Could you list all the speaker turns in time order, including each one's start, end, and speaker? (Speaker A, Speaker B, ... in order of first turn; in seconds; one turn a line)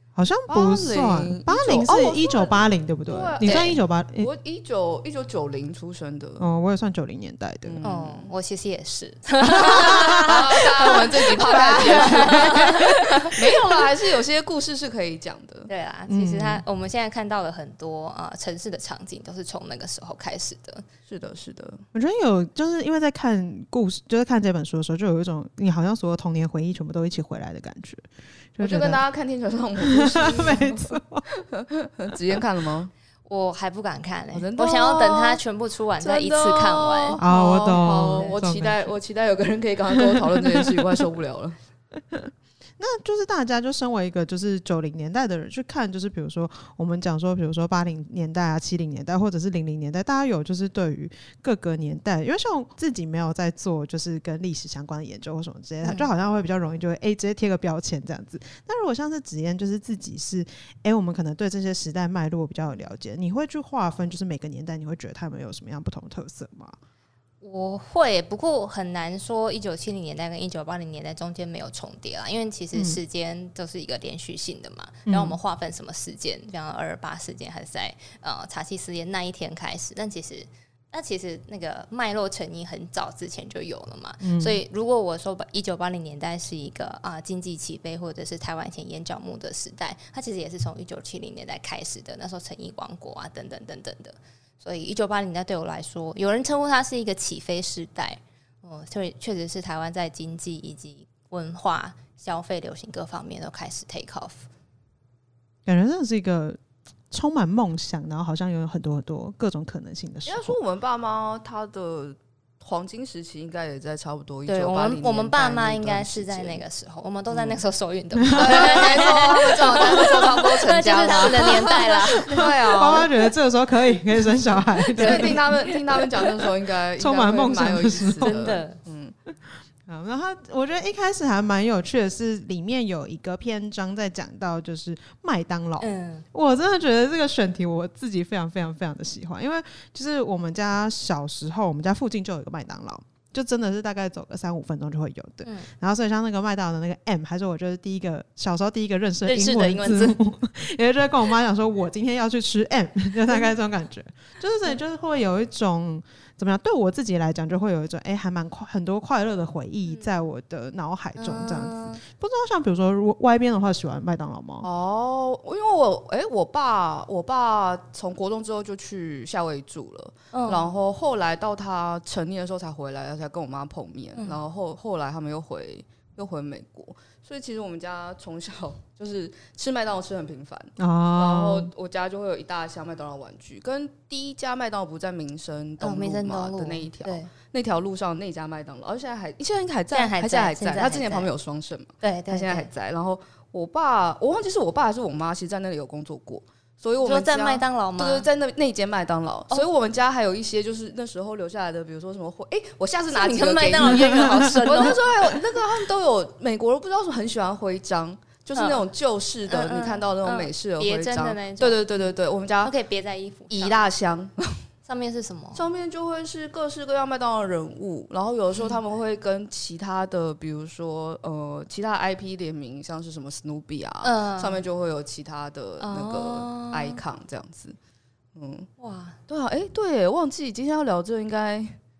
Speaker A: 0.1-4.3
Speaker B: 0.5-6.4
Speaker C: 3.4-3.8
Speaker A: 6.4-7.8
Speaker B: 7.7-8.3
Speaker C: 7.8-13.8
Speaker A: 9.5-10.3
Speaker B: 9.9-15.7
Speaker C: 15.7-20.8
Speaker A: 16.1-16.6
Speaker B: 21.1-21.8
Speaker A: 21.9-29.0
Speaker B: 28.6-31.0
Speaker A: 29.8-31.2
Speaker B: 31.5-32.9
Speaker C: 33.2-38.4
Speaker B: 34.3-35.4
Speaker B: 36.0-41.6
Speaker A: 37.2-38.9
Speaker A: 39.9-41.0
Speaker A: 42.0-66.8
Speaker C: 55.8-56.1
Speaker C: 67.4-104.5
Speaker A: 72.7-73.0
Speaker A: 75.1-75.4
Speaker A: 84.2-84.6
Speaker A: 105.7-106.6
Speaker A: 107.1-110.6
Speaker B: 110.2-116.6
Speaker C: 114.5-122.5
Speaker B: 117.3-117.6
Speaker A: 118.2-119.8
Speaker B: 118.3-123.1
Speaker A: 122.2-125.5
Speaker C: 124.9-126.0
Speaker B: 125.0-129.1
Speaker A: 127.0-128.4
Speaker C: 128.2-128.8
Speaker A: 129.9-164.7
Speaker C: 135.8-136.2
Speaker C: 149.2-150.2
Speaker C: 161.2-162.0
Speaker B: 164.6-212.7
Speaker C: 170.3-170.7
Speaker A: 180.8-181.7
Speaker C: 185.8-187.3
Speaker C: 189.9-191.3
Speaker C: 192.0-192.7
Speaker C: 197.0-198.3
Speaker C: 203.1-205.0
Speaker C: 208.6-208.8
Speaker C: 209.5-212.1
Speaker C: 212.6-213.8
Speaker B: 213.5-214.6
Speaker C: 214.9-215.7
Speaker B: 215.6-227.8
Speaker C: 224.0-224.6
Speaker C: 225.8-227.0
Speaker B: 228.3-228.7
Speaker C: 228.8-229.2
Speaker B: 229.3-231.8